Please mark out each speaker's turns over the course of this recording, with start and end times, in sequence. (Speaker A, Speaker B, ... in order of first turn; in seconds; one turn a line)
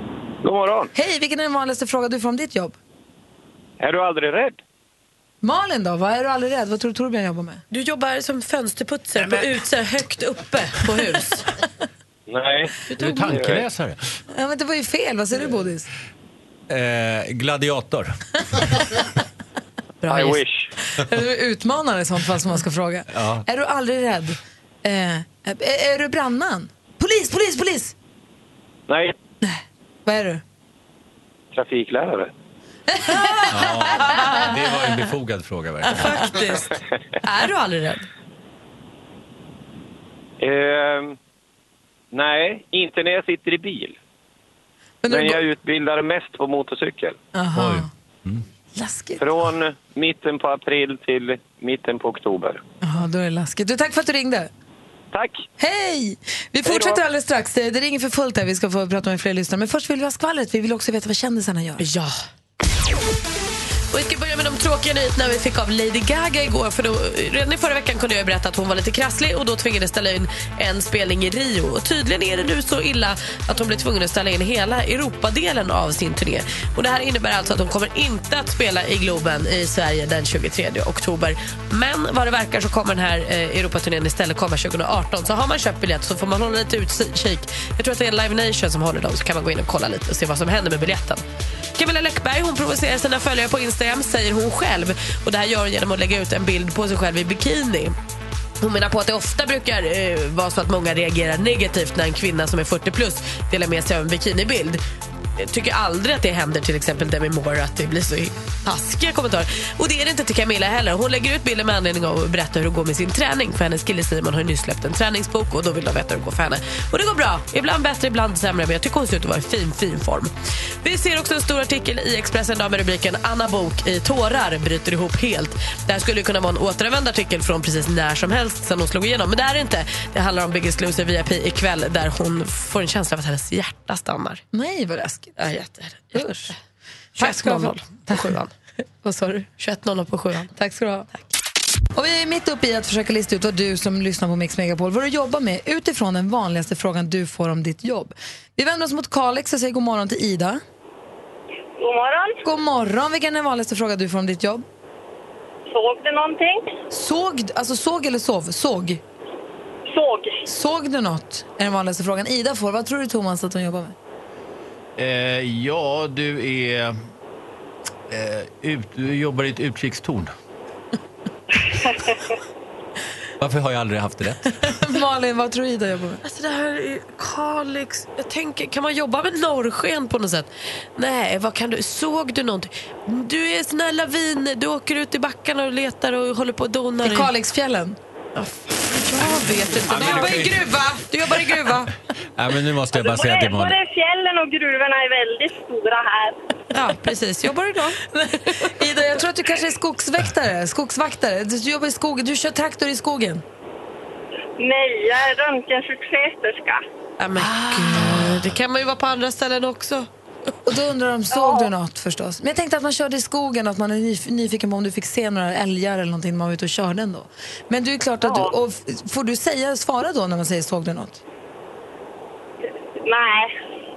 Speaker A: 0.4-0.9
Speaker B: 0.9-2.8
Speaker A: 3.8-4.6
Speaker B: 5.4-7.6
Speaker C: 7.7-11.5
Speaker D: 9.2-9.5
Speaker A: 12.3-12.7
Speaker C: 12.9-13.4
Speaker D: 13.0-14.0
Speaker A: 13.3-13.6
Speaker B: 14.3-15.9
Speaker D: 16.7-18.8
Speaker C: 20.0-20.4
Speaker A: 20.1-20.7
Speaker B: 21.0-27.9
Speaker D: 23.1-23.4
Speaker A: 28.9-29.1
Speaker B: 29.4-30.4
Speaker A: 31.5-32.3
Speaker B: 32.9-34.5
Speaker D: 33.5-36.3
Speaker C: 35.9-38.1
Speaker A: 40.4-41.2
Speaker A: 42.1-44.0
Speaker B: 45.0-45.4
Speaker A: 45.1-47.2
Speaker B: 47.3-47.9
Speaker D: 47.5-48.4
Speaker B: 48.8-49.3
Speaker A: 49.2-52.6
Speaker B: 52.8-54.5
Speaker A: 55.1-55.5
Speaker B: 55.6-61.9
Speaker A: 56.7-56.9
Speaker C: 61.8-62.2
Speaker C: 63.9-91.2
Speaker C: 91.8-98.0
Speaker C: 98.6-104.8
Speaker C: 105.4-134.4
Speaker B: 134.5-135.5
Speaker C: 135.4-136.5
Speaker B: 136.1-136.5
Speaker B: 137.2-138.3
Speaker C: 137.2-138.5
Speaker B: 139.1-139.4
Speaker C: 139.4-140.5
Speaker B: 140.6-141.1
Speaker B: 141.9-150.6
Speaker E: 151.8-152.4
Speaker B: 152.4-154.6
Speaker E: 155.7-156.7
Speaker B: 156.9-159.0
Speaker E: 159.9-160.4
Speaker B: 160.4-163.9
Speaker D: 165.0-167.1
Speaker D: 168.1-170.3
Speaker D: 173.4-174.7
Speaker B: 174.6-176.2
Speaker C: 176.2-187.3
Speaker B: 187.0-188.0
Speaker C: 188.3-191.9
Speaker D: 189.8-190.7
Speaker B: 189.9-191.1
Speaker D: 192.3-193.8
Speaker E: 192.9-196.4
Speaker C: 196.7-198.5
Speaker B: 198.1-203.4
Speaker E: 204.6-206.8
Speaker C: 207.2-210.1
Speaker B: 207.4-208.3
Speaker D: 208.1-208.4
Speaker B: 210.7-221.2
Speaker E: 211.3-211.7
Speaker E: 218.2-218.5
Speaker E: 223.0-223.5